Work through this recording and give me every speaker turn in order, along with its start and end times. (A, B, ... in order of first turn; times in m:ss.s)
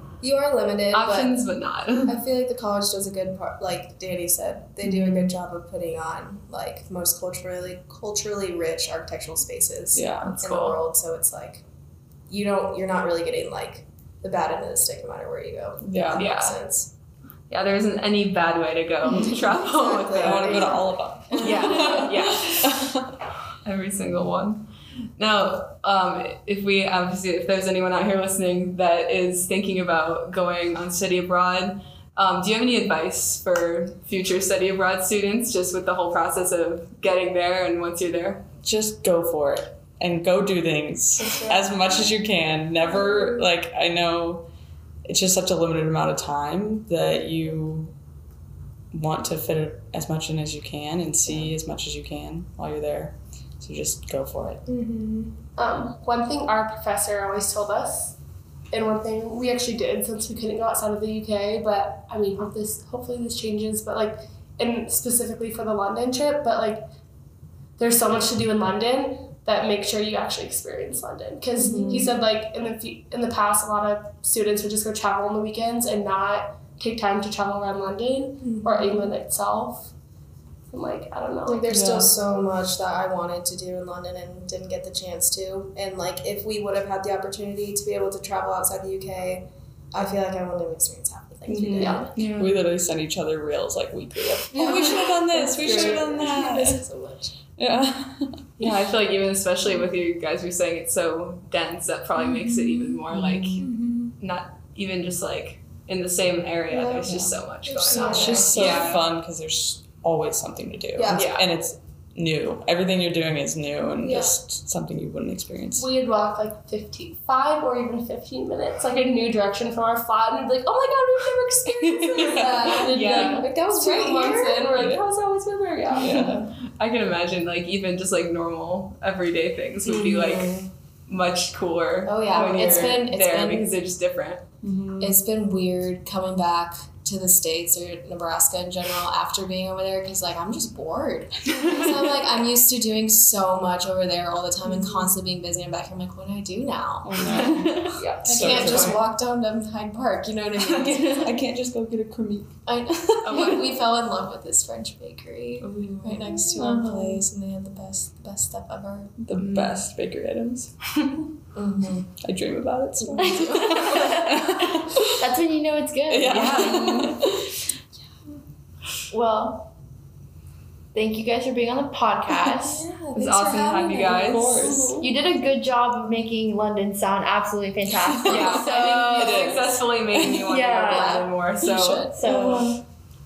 0:00.2-0:01.5 A
0:00.9-0:02.2 B
0:02.1-0:11.6 A
0:04.8-0:05.3 C
0:09.9-0:10.4 C
0:10.2-0:10.8 B
0:12.3-0:16.9 A
0:15.8-0:16.3 C
0:16.2-0:16.6 B
0:17.5-0:20.7 B
0:19.0-0:22.4 A
0:20.2-0:23.2 C
0:21.4-0:22.7 B
0:23.6-0:24.7 B
0:25.2-0:38.4 B
0:38.6-0:44.5 C
0:41.2-0:41.7 A
0:43.1-0:43.4 A
0:45.1-0:47.9 C
0:48.9-0:54.7 C
0:54.7-0:55.4 A
0:55.6-0:58.2 D
0:58.7-1:06.8 D
1:07.8-1:19.9 D
1:11.6-1:12.2 A
1:18.4-1:19.1 A
1:20.7-1:21.6 D
1:21.5-1:32.2 A
1:21.7-1:22.1 C
1:31.5-1:36.8 C
1:32.1-1:32.5 B
1:34.5-1:37.4 A
1:35.6-1:36.1 B
1:37.6-1:38.7 C
1:38.6-1:43.6 B
1:42.2-1:43.0 A
1:43.1-1:43.7 C
1:43.6-1:44.1 A
1:44.2-1:49.0 B
1:46.7-1:49.0 A
1:47.0-1:55.9 C
1:51.0-1:51.4 A
1:51.1-1:51.5 B
1:54.0-1:54.4 A
1:55.8-2:06.4 D
2:02.1-2:03.1 C
2:02.2-2:04.7 A
2:02.8-2:03.4 B
2:04.7-2:05.0 C
2:05.9-2:06.5 C
2:06.2-2:14.4 B
2:09.9-2:10.7 C
2:09.9-2:10.4 A
2:12.0-2:13.8 A
2:14.6-2:15.2 C
2:15.0-2:27.6 A
2:27.0-2:29.0 C
2:27.2-2:29.0 B
2:28.2-2:31.4 A
2:30.6-2:33.7 C
2:32.7-2:39.1 A
2:33.2-2:33.6 B
2:35.6-2:36.4 B
2:36.2-2:37.2 C
2:39.2-2:40.7 C
2:39.4-2:39.8 B
2:41.6-2:42.1 A
2:42.2-2:45.1 C
2:43.0-2:43.9 A
2:43.2-2:47.2 E
2:46.1-2:47.6 C
2:46.3-2:46.9 B
2:49.1-2:49.7 E
2:50.9-2:52.9 E
2:52.6-2:54.6 A
2:53.1-2:54.5 B
2:54.1-2:54.9 C
2:54.8-2:55.1 D
2:55.0-2:59.6 E
2:58.3-3:00.5 C
2:58.3-3:02.1 B
2:58.3-2:59.2 A
3:00.5-3:01.3 E
3:00.8-3:02.6 A
3:02.1-3:02.8 E
3:02.2-3:02.8 C